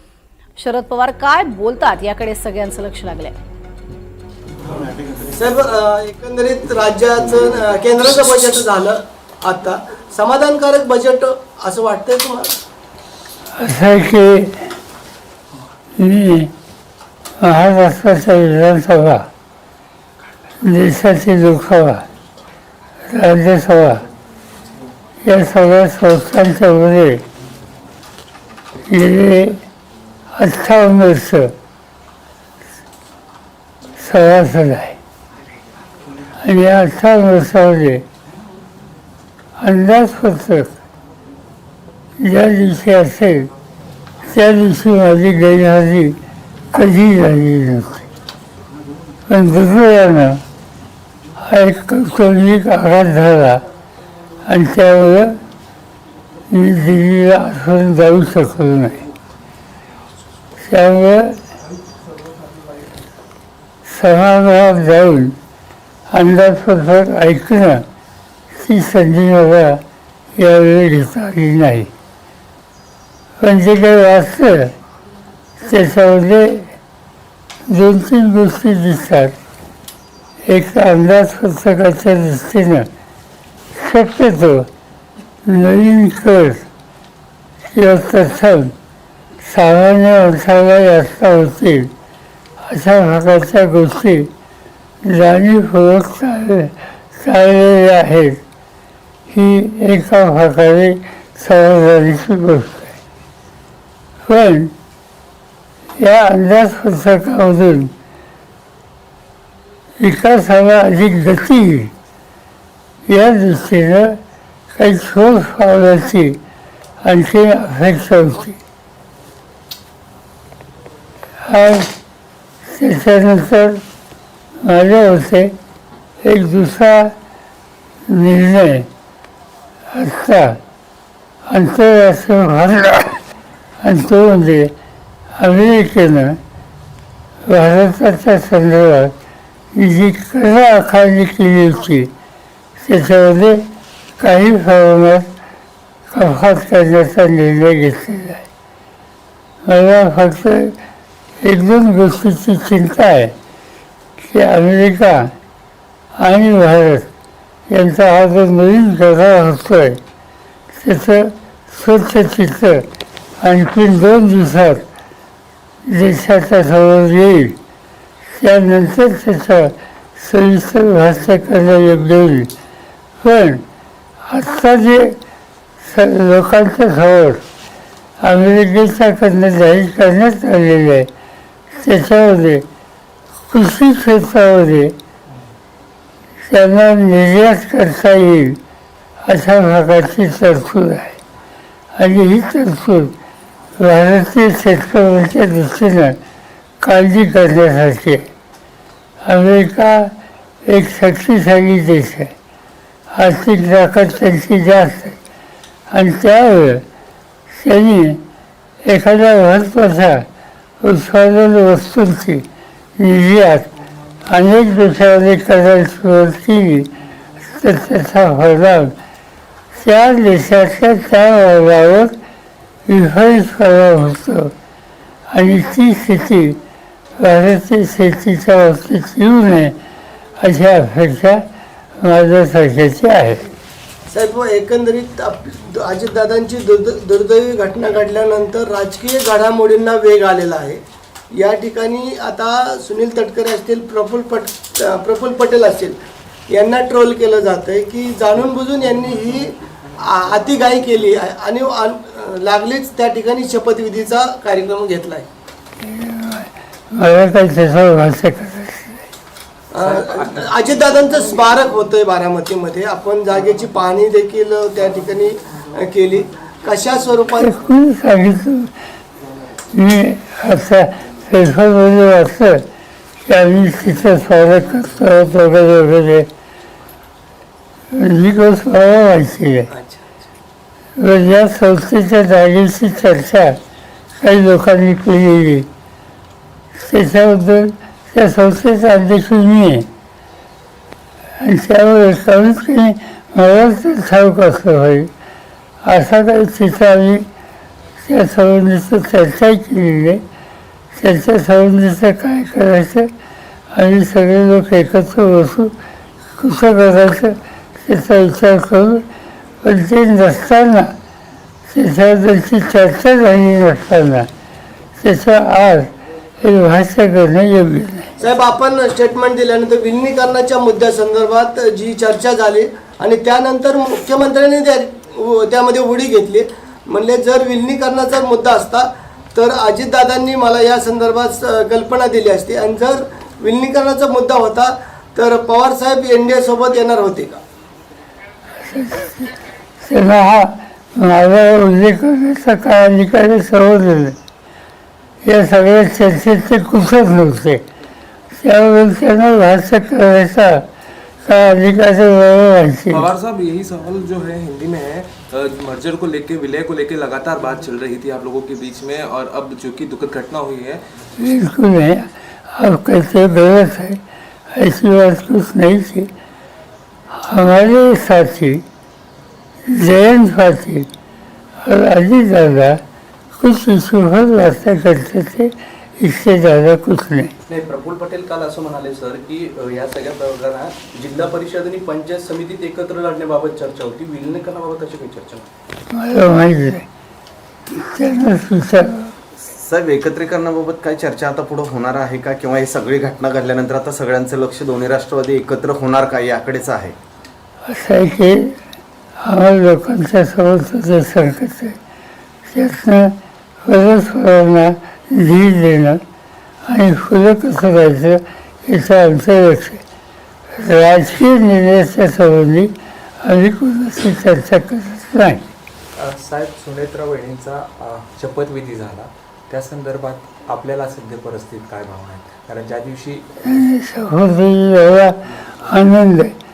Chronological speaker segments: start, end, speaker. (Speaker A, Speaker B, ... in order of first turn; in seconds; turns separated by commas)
Speaker A: 0.6-3.3, Speaker B: 5.3-12.6, Speaker C: 13.6-14.7, Speaker C: 16.0-16.5, Speaker C: 17.4-19.3, Speaker C: 20.6-22.0, Speaker C: 23.1-24.0, Speaker C: 25.2-27.2, Speaker C: 28.9-29.6, Speaker C: 30.3-31.5, Speaker C: 34.0-35.0, Speaker C: 36.4-38.0, Speaker C: 39.6-40.7, Speaker C: 42.2-43.5, Speaker C: 44.2-46.2, Speaker C: 46.7-48.0, Speaker C: 49.3-50.4, Speaker C: 51.4-53.6, Speaker C: 54.5-55.4, Speaker C: 56.5-59.1, Speaker C: 60.6-61.4, Speaker C: 63.9-65.4, Speaker C: 66.1-67.8, Speaker C: 68.5-69.8, Speaker C: 70.3-71.9, Speaker C: 73.4-74.7, Speaker C: 75.6-76.7, Speaker C: 77.7-79.3, Speaker C: 80.5-82.9, Speaker C: 83.7-84.7, Speaker C: 85.5-86.7, Speaker C: 87.7-88.7, Speaker C: 89.4-91.9, Speaker C: 92.7-94.3, Speaker C: 95.0-98.4, Speaker C: 99.3-103.0, Speaker C: 104.2-104.7, Speaker C: 106.0-107.9, Speaker C: 110.0-111.9, Speaker C: 113.1-114.2, Speaker C: 114.8-116.4, Speaker C: 117.0-118.6, Speaker C: 121.4-121.9, Speaker C: 122.7-123.8, Speaker C: 124.6-125.5, Speaker C: 126.2-127.1, Speaker C: 128.1-128.9, Speaker C: 129.9-130.6, Speaker C: 131.5-133.2, Speaker C: 133.8-134.7, Speaker C: 135.4-136.4, Speaker C: 137.4-139.1, Speaker C: 139.7-142.1, Speaker C: 142.8-143.6, Speaker C: 144.2-145.3, Speaker C: 146.1-148.4, Speaker C: 149.6-150.8, Speaker C: 151.4-153.3, Speaker C: 154.2-155.3, Speaker C: 156.2-157.1, Speaker C: 157.7-160.0, Speaker C: 160.7-162.8, Speaker C: 163.4-164.8, Speaker C: 165.8-167.6, Speaker C: 168.3-172.5, Speaker C: 173.2-173.6, Speaker C: 174.2-175.2, Speaker C: 175.8-177.4, Speaker C: 178.2-181.1, Speaker C: 181.7-182.7, Speaker C: 183.5-184.9, Speaker C: 186.4-188.6, Speaker C: 189.2-191.2, Speaker C: 191.9-193.1, Speaker C: 193.8-196.2, Speaker C: 196.8-198.3, Speaker C: 199.2-200.1, Speaker C: 200.7-202.3, Speaker C: 203.1-205.2, Speaker C: 205.9-206.8, Speaker C: 207.5-208.2, Speaker C: 208.8-210.2, Speaker C: 210.8-213.7, Speaker C: 214.2-218.9, Speaker C: 219.7-222.1, Speaker C: 222.9-224.5, Speaker C: 225.3-226.6, Speaker C: 227.2-229.8, Speaker C: 230.4-231.4, Speaker C: 232.0-233.5, Speaker B: 234.1-240.8, Speaker B: 241.3-255.3, Speaker C: 255.8-259.0, Speaker B: 259.7-267.6, Speaker D: 259.8-260.2, Speaker C: 267.4-268.7, Speaker C: 269.7-272.6, Speaker C: 273.2-276.3, Speaker C: 277.9-279.7, Speaker B: 279.7-280.2, Speaker C: 281.0-283.6, Speaker C: 284.2-285.7, Speaker C: 286.8-289.9, Speaker C: 291.4-295.1, Speaker C: 295.8-297.2, Speaker C: 298.0-300.2, Speaker C: 300.9-303.1, Speaker C: 303.7-305.7, Speaker C: 306.4-309.0, Speaker C: 309.6-310.9, Speaker C: 311.7-314.3, Speaker C: 315.0-315.9, Speaker C: 316.4-318.1, Speaker B: 318.2-337.4, Speaker C: 338.6-344.2, Speaker C: 345.2-347.6, Speaker C: 348.4-350.6, Speaker C: 351.2-353.1, Speaker E: 352.9-360.8, Speaker C: 361.2-364.0, Speaker C: 364.5-366.1, Speaker C: 367.1-368.6, Speaker C: 369.7-370.9, Speaker C: 371.6-372.8, Speaker C: 373.4-377.3, Speaker F: 377.5-385.5, Speaker C: 385.9-386.8, Speaker C: 387.7-389.1, Speaker G: 389.4-396.9, Speaker C: 397.7-398.5, Speaker C: 399.2-401.8, Speaker C: 402.5-403.1, Speaker C: 403.6-406.0, Speaker C: 406.6-409.8, Speaker C: 410.5-415.4, Speaker D: 415.9-423.5, Speaker C: 423.4-426.3